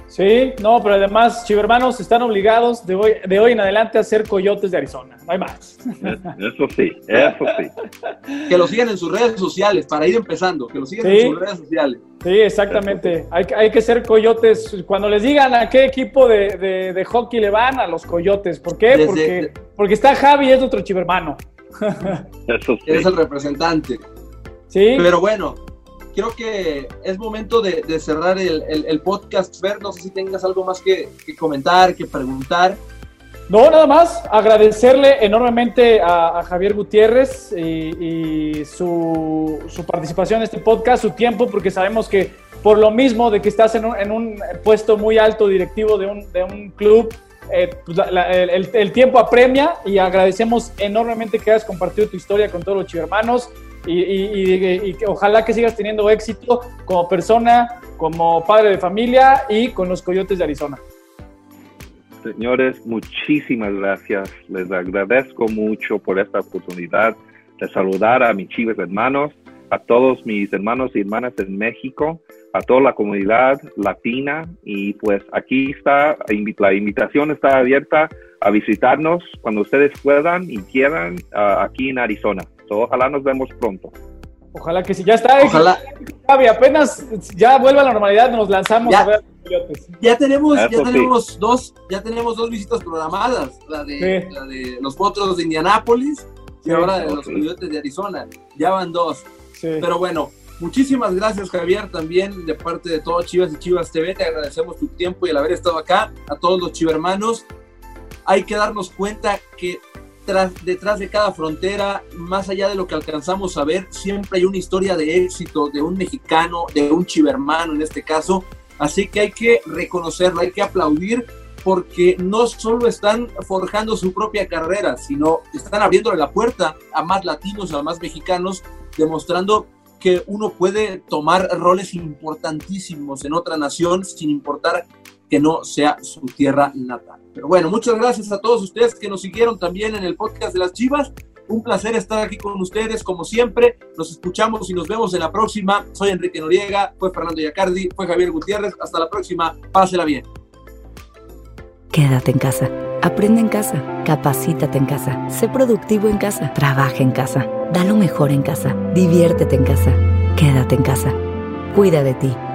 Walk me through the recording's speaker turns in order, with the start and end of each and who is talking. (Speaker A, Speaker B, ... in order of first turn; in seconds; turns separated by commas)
Speaker A: 0.1-6.3, Speaker B: 6.0-7.7, Speaker C: 8.5-12.0, Speaker A: 11.0-11.4, Speaker A: 12.2-22.2, Speaker B: 12.7-13.1, Speaker C: 18.9-19.5, Speaker B: 22.5-23.1, Speaker C: 22.9-24.0, Speaker A: 24.7-25.1, Speaker C: 25.0-25.6, Speaker C: 26.1-32.8, Speaker A: 33.5-60.8, Speaker B: 62.2-83.9, Speaker A: 84.5-89.9, Speaker C: 85.4-85.8, Speaker C: 90.0-99.3, Speaker B: 90.5-91.1, Speaker A: 94.0-94.3, Speaker B: 97.0-97.4, Speaker A: 99.6-99.9, Speaker C: 99.8-107.5, Speaker C: 108.3-150.3, Speaker D: 151.9-161.2, Speaker D: 161.7-162.4